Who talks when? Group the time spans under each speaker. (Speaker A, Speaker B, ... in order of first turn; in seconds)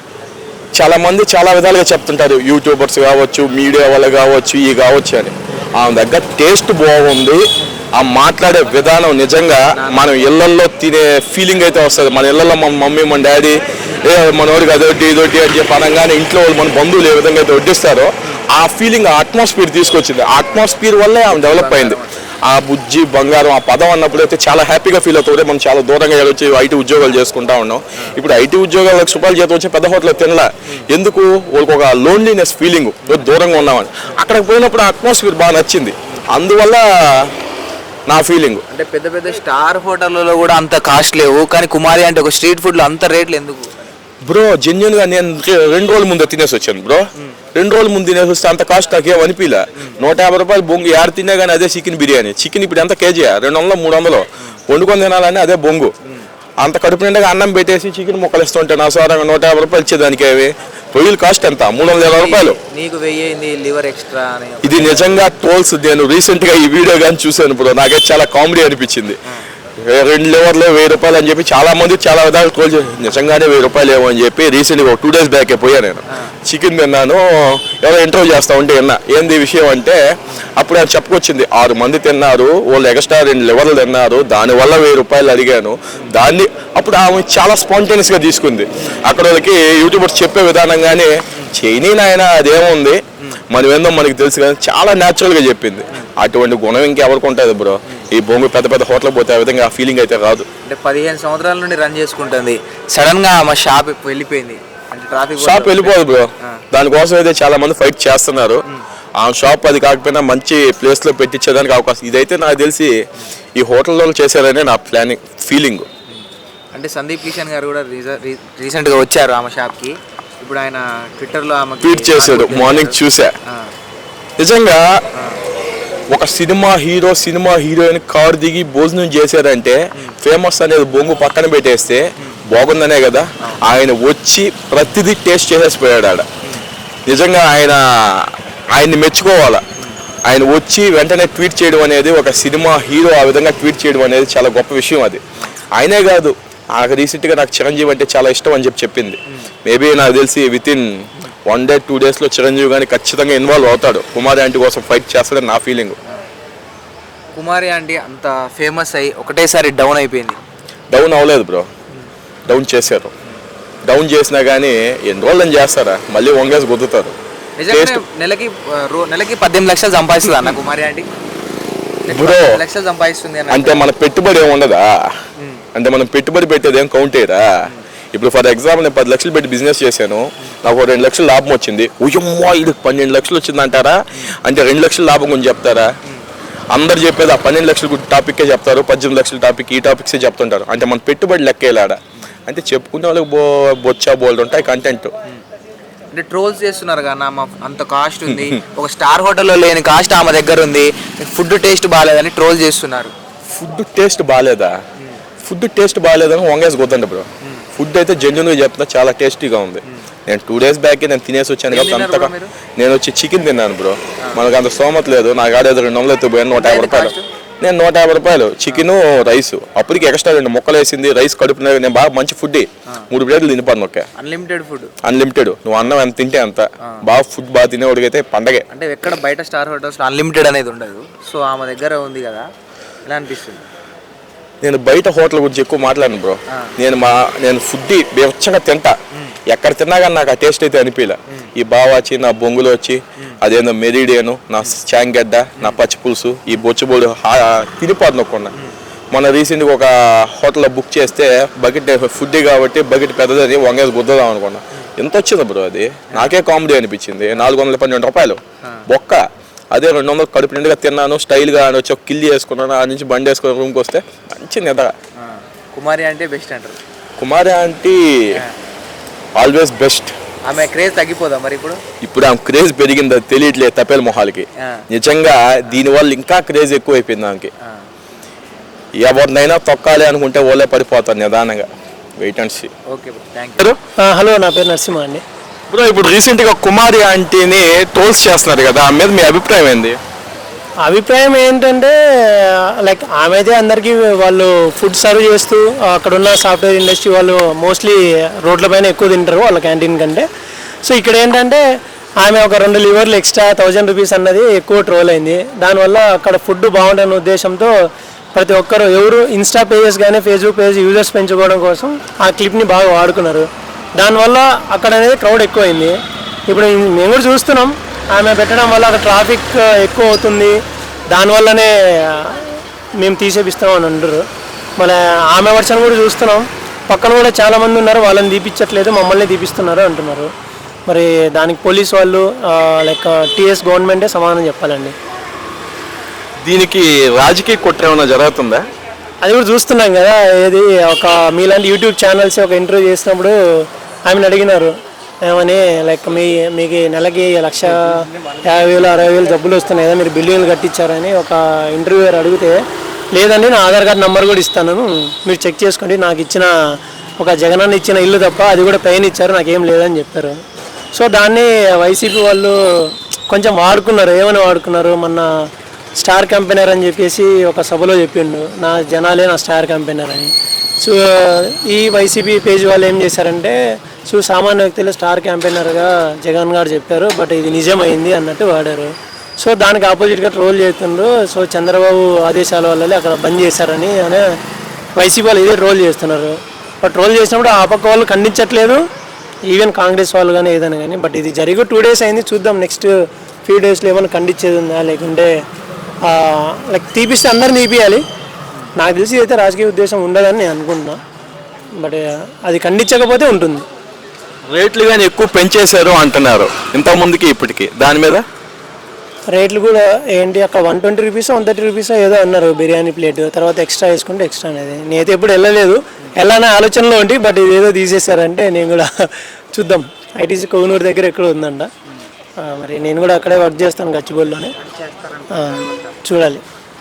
Speaker A: 0.7-7.4, 8.0-37.3, 38.1-38.6, 44.3-47.0, 47.5-55.9, 56.6-62.6, 64.6-69.2, 69.8-80.0, 80.6-100.5, 105.4-108.6, 109.2-112.9, 113.6-115.9, 121.8-123.3, 124.4-125.0, 126.1-136.3, 137.1-139.6, 140.3-145.2, 145.8-156.0, 160.9-161.7, 162.5-163.1, 163.9-167.1, 167.7-168.0, 172.1-172.6, 173.5-175.1, 175.8-185.9, 186.7-195.1, 198.3-198.6, 203.5-204.8, 205.4-224.1, 225.0-228.7, 234.6-238.9, 239.5-248.6, 249.1-264.9, 267.2-268.4, 269.4-270.1, 272.0-277.5, 279.0-281.7, 282.2-282.7, 285.7-290.0, 336.4-338.6, 404.5-408.2
Speaker B: 9.8-10.1, 21.3-22.2, 33.1-33.4, 38.7-43.9, 61.9-65.3, 100.7-106.6, 116.1-123.7, 157.3-160.4, 167.6-171.1, 172.1-173.9, 175.4-175.6, 196.1-203.1, 211.7-212.6, 216.5-217.3, 224.2-224.9, 228.7-232.5, 233.1-233.6, 265.2-266.8, 270.4-271.8, 274.6-274.9, 277.6-277.9, 282.9-283.6, 347.6-349.4, 424.6-426.0
Speaker C: 284.0-285.2, 290.9-300.3, 300.9-301.6, 302.2-307.7, 308.4-316.0, 316.5-320.6, 321.1-324.3, 324.8-330.3, 330.9-334.9, 339.2-343.4, 344.1-352.6, 353.1-356.5, 357.2-360.4, 360.9-365.3, 366.0-384.4, 385.0-388.8, 389.5-392.9, 393.4-395.4, 396.1-398.0, 398.8-401.0, 401.8-403.7, 409.3-421.7, 422.4-424.5, 425.3-426.4